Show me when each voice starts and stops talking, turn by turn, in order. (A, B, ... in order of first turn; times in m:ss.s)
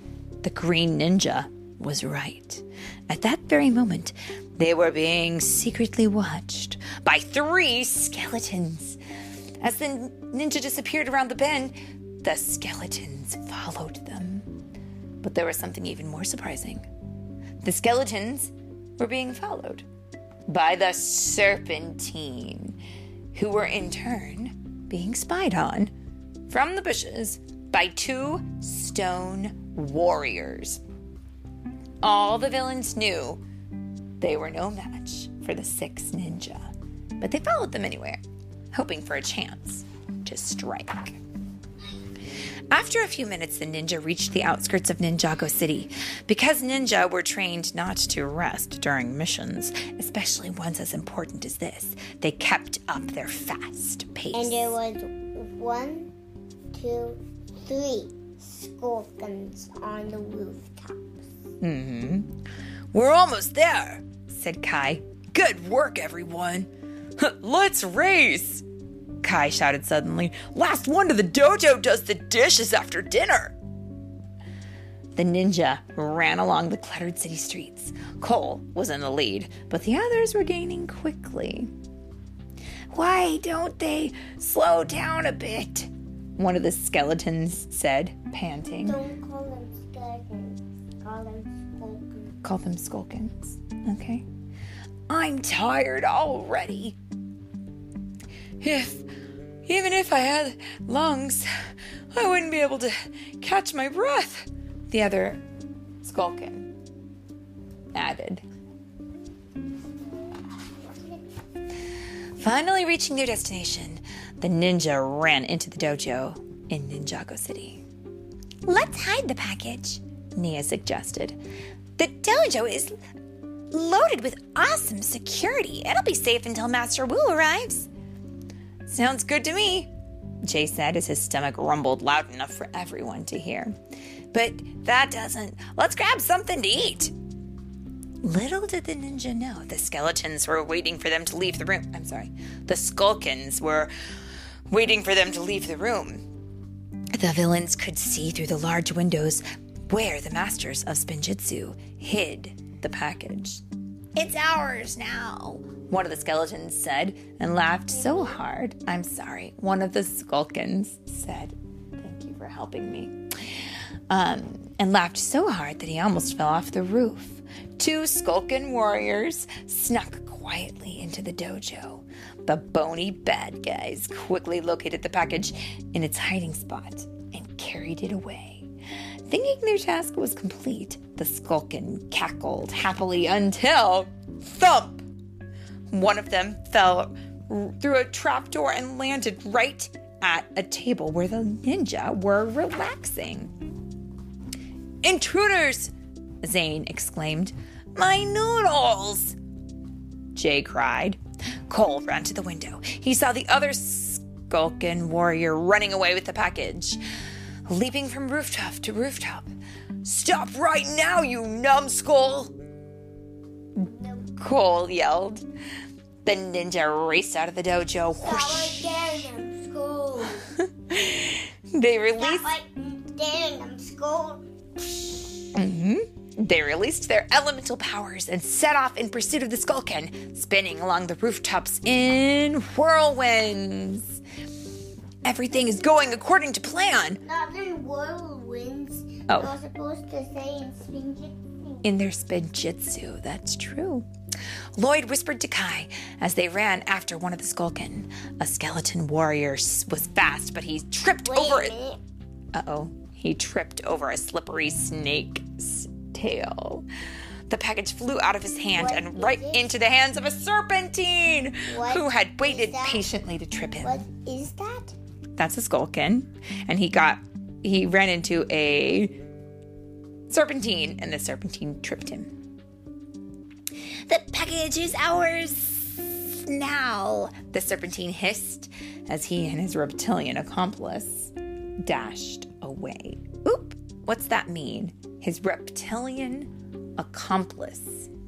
0:00.4-0:09.0 A
0:09.6-0:14.5 A
0:15.2-0:16.8 A
0:17.6-0:19.8 A
0:20.5-0:22.8 A
0:23.3-0:25.9 A
0:26.5-0:30.8 A
0:32.0-0:33.4 A
0:34.2-0:36.7 A
0:37.2-0:38.2 A
0:38.7-0:41.2 A
0:42.7-0:54.8 A
0:54.3-0:56.1 B
0:56.7-1:01.2 B
1:01.6-1:02.3 A
1:02.9-1:08.6 A
1:09.2-1:13.6 A
1:15.2-1:21.7 A
1:22.9-1:29.0 A
1:28.8-1:32.4 B
1:32.4-1:34.2 A
1:35.1-1:37.0 A
1:38.6-1:39.1 A
1:39.6-1:41.5 A
1:42.1-1:45.4 A
1:46.0-1:46.7 A
1:47.9-1:48.4 A
1:50.9-1:51.1 B
1:52.4-1:57.8 A
1:58.6-2:01.4 A
2:02.0-2:02.9 A
2:03.7-2:07.9 A
2:08.8-2:09.9 A
2:10.5-2:13.7 A
2:14.3-2:17.1 A
2:18.2-2:23.9 A
2:24.7-2:26.2 A
2:27.1-2:33.6 A
2:34.2-2:43.2 A
2:44.1-2:58.7 A
2:59.3-3:05.0 A
3:05.9-3:13.5 A
3:15.0-3:19.4 A
3:20.3-3:21.2 A
3:21.7-3:27.0 A
3:27.7-3:29.5 A
3:30.0-3:32.5 A
3:33.8-3:34.3 B
3:34.4-3:35.5 A
3:36.2-3:39.0 A
3:38.2-3:40.5 B
3:40.7-3:42.6 A
3:42.2-3:45.2 B
3:45.5-3:54.2 A
3:55.2-3:57.2 A
3:57.2-4:01.8 B
3:59.3-3:59.5 A
4:01.8-4:04.1 A
4:04.8-4:11.7 A
4:11.2-4:12.0 B
4:12.5-4:16.8 A
4:17.5-4:24.0 A
4:18.8-4:19.7 B
4:21.7-4:23.1 B
4:23.8-4:24.9 B
4:25.4-4:29.2 A
4:30.3-4:32.3 A
4:34.1-4:48.1 A